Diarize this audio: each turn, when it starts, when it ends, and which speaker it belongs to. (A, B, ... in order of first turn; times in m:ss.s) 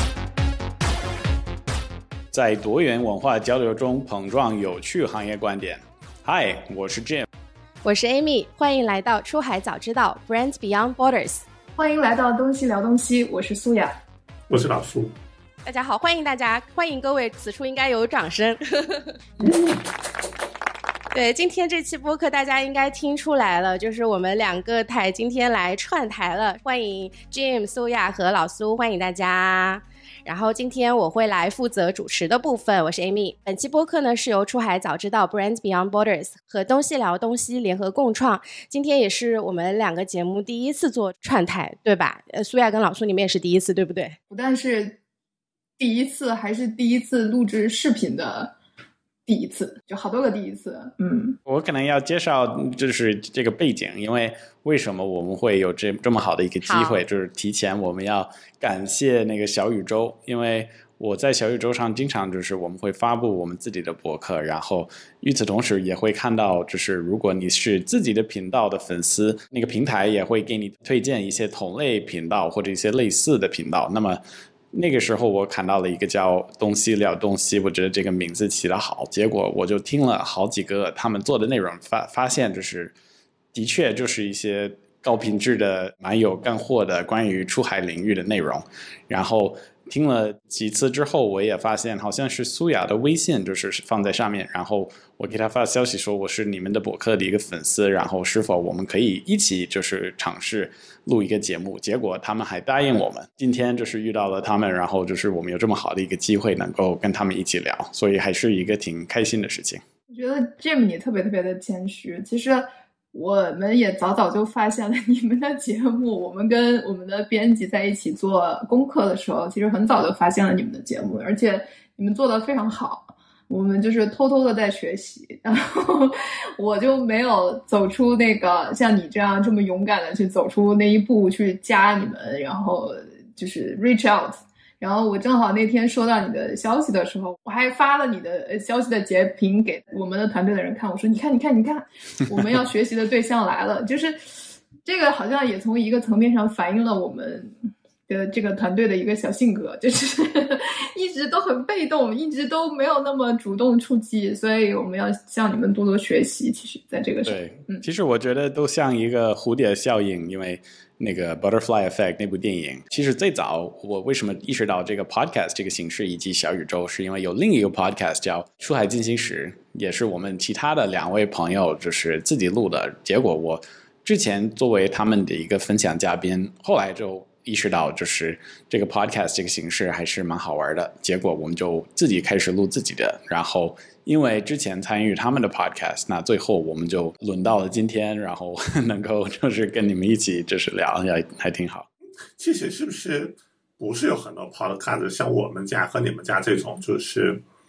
0:02.3-0:07.2 A
0:07.8-0:11.4 B
0:11.8-0:14.0 C
0:14.5-0:15.1 D
0:15.6-0:19.2 B
0:19.4-0:19.7 D
0:21.1-0:44.2 B
0:44.3-0:45.0 C
0:45.8-0:48.5 C
0:49.2-0:51.4 C
0:51.4-1:14.2 A
0:56.6-0:57.0 B
1:14.7-1:22.9 A
1:23.5-1:49.8 A
1:50.1-2:27.5 C
2:28.1-2:37.8 C
2:37.2-3:11.9 A
3:12.4-3:17.4 D